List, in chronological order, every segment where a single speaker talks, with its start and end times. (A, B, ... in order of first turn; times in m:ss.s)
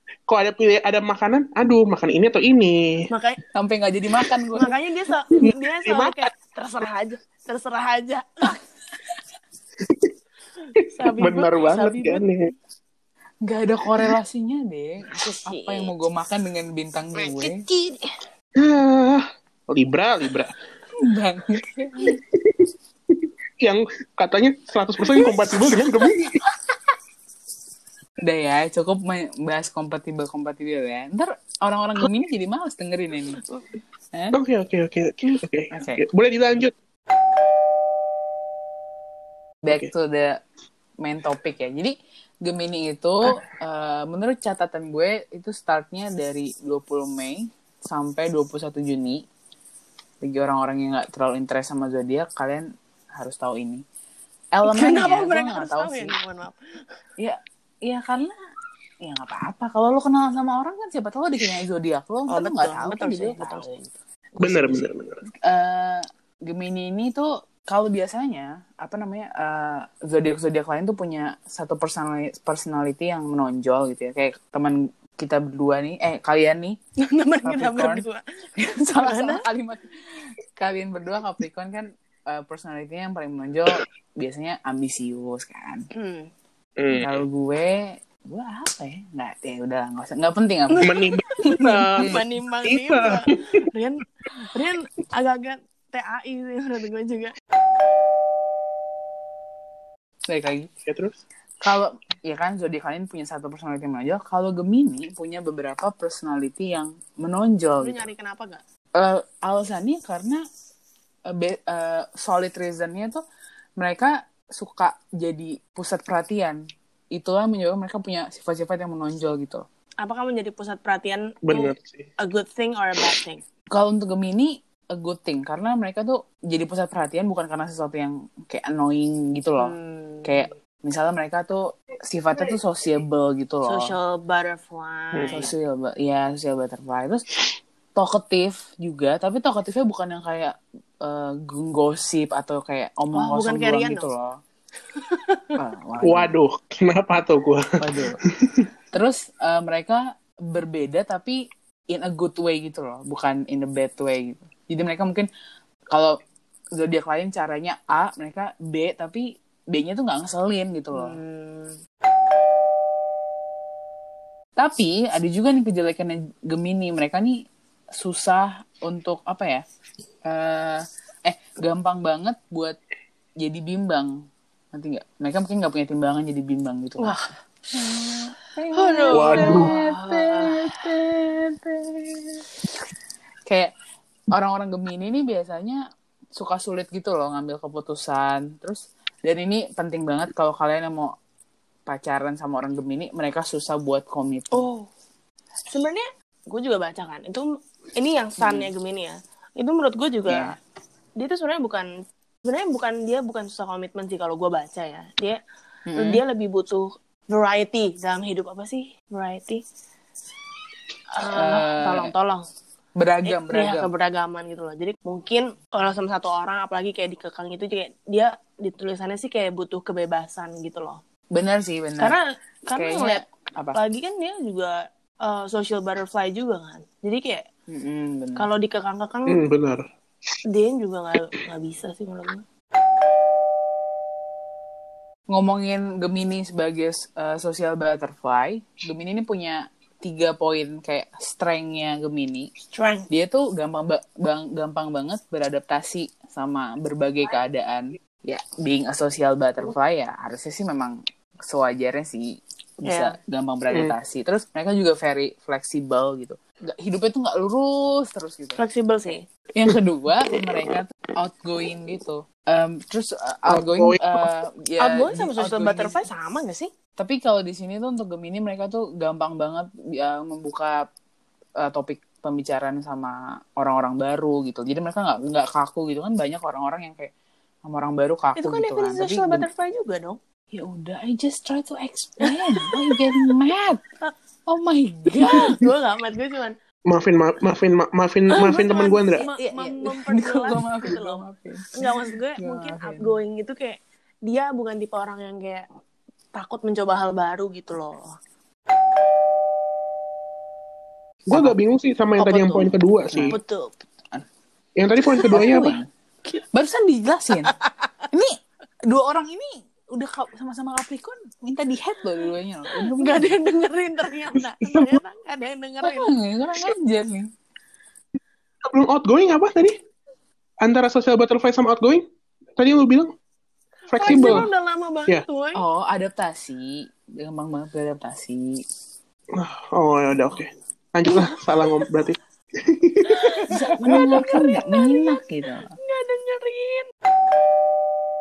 0:00.3-0:02.8 A
0:03.1-0:03.4 B
0:03.6-0:04.7 C
0:04.6-0:08.4 B
0:05.4-0:06.3 A
0:09.8-0:10.1 A
0:10.8-0:12.5 A
0:11.0-0:12.2 B
0:13.4-0:17.6 C
0:15.4-0:15.9 B
0:17.2-0:18.1 B
0:18.6-0:20.5 A
0:21.0-0:22.2 C
0:22.0-0:26.4 A
0:28.2-0:33.4 C
0:34.3-0:36.7 A
0:35.7-0:36.0 C
0:39.6-0:40.4 C
0:41.0-0:49.2 C
0:50.2-0:53.8 C
0:54.6-0:56.2 C
0:54.6-0:56.6 B
0:57.2-0:58.4 C
0:59.0-1:04.8 C
1:02.3-1:03.8 B
1:04.4-1:05.2 A
1:05.4-1:16.8 C
1:17.0-1:19.4 B
1:17.4-1:18.0 C
1:18.6-1:19.9 C
1:20.6-1:25.9 C
1:25.9-1:26.3 B
1:26.8-1:27.2 A
1:27.0-1:30.9 C
1:30.7-1:37.3 B
1:30.8-1:33.7 A
1:40.3-1:40.7 C
1:40.9-1:41.2 A
1:41.6-1:48.0 C
1:47.8-1:48.6 B
1:49.0-1:50.4 C
1:51.3-1:53.2 C
1:53.8-1:56.6 C
1:57.1-1:59.6 C
2:00.0-2:03.4 B
2:01.5-2:02.1 A
2:03.7-2:13.9 C
2:09.6-2:10.4 B
2:13.7-2:15.5 B
2:15.1-2:15.5 A
2:15.3-2:17.2 C
2:18.0-2:24.4 C
2:23.2-2:24.1 B
2:25.0-2:25.5 B
2:25.6-2:26.3 C
2:26.0-2:27.7 A
2:27.8-2:28.2 C
2:28.9-2:31.4 C
2:31.9-2:35.3 C
2:36.8-2:41.2 C
2:40.9-2:41.8 B
2:44.6-2:47.4 C
2:48.0-2:49.6 C
2:50.3-2:52.8 C
2:53.4-2:54.1 C
2:54.7-2:57.2 C
2:57.0-2:57.2 B
2:57.7-3:02.4 C
2:58.7-3:00.8 B
2:59.1-2:59.7 A
3:03.5-3:03.7 C
3:04.3-3:05.8 C
3:06.4-3:11.1 C
3:11.9-3:14.7 C
3:14.5-3:14.9 B
3:15.7-3:20.6 B
3:18.4-3:18.7 C
3:20.3-3:20.6 C
3:21.2-3:21.9 B
3:22.4-3:25.4 B
3:25.9-3:26.2 C
3:26.0-3:29.6 B
3:31.2-3:32.4 B
3:31.3-3:32.1 C
3:33.0-3:33.9 C
3:33.3-3:41.0 B
3:41.3-3:42.2 C
3:42.0-3:43.2 B
3:42.7-3:43.8 C
3:43.8-3:47.4 B
3:47.7-3:48.5 C
3:48.4-3:49.4 B
3:49.3-3:49.8 A
3:50.5-3:52.4 B
3:55.3-4:02.5 C
4:02.7-4:03.1 B
4:03.1-4:18.6 C
4:12.8-4:13.2 B
4:18.6-4:19.2 B
4:19.6-4:26.0 C
4:23.5-4:24.3 A
4:24.8-4:26.7 B
4:27.0-4:30.8 C
4:31.6-4:37.1 C
4:37.6-4:39.5 C
4:38.4-4:40.2 B
4:40.5-4:43.8 C
4:42.2-4:43.1 B
4:44.5-4:45.6 C
4:45.2-4:46.6 B
4:46.9-4:49.2 A
4:48.3-4:51.2 B
4:49.2-4:53.1 C
4:51.8-4:55.7 B
4:56.3-4:58.2 B
5:01.3-5:03.4 A
5:03.1-5:03.4 C
5:03.3-5:03.7 B
5:04.8-5:05.8 A
5:05.3-5:05.9 C
5:06.5-5:07.6 C
5:07.3-5:07.9 B
5:08.1-5:13.4 C
5:12.7-5:16.1 B
5:14.6-5:15.0 A
5:15.8-5:17.3 C
5:18.6-5:19.8 A
5:20.6-5:22.0 A
5:22.6-5:23.1 A
5:23.9-5:24.5 A
5:23.9-5:25.6 B
5:24.0-5:24.5 C
5:25.6-5:28.6 C
5:29.4-5:34.4 A
5:33.1-5:35.2 B
5:33.5-5:35.7 C
5:35.8-5:36.9 B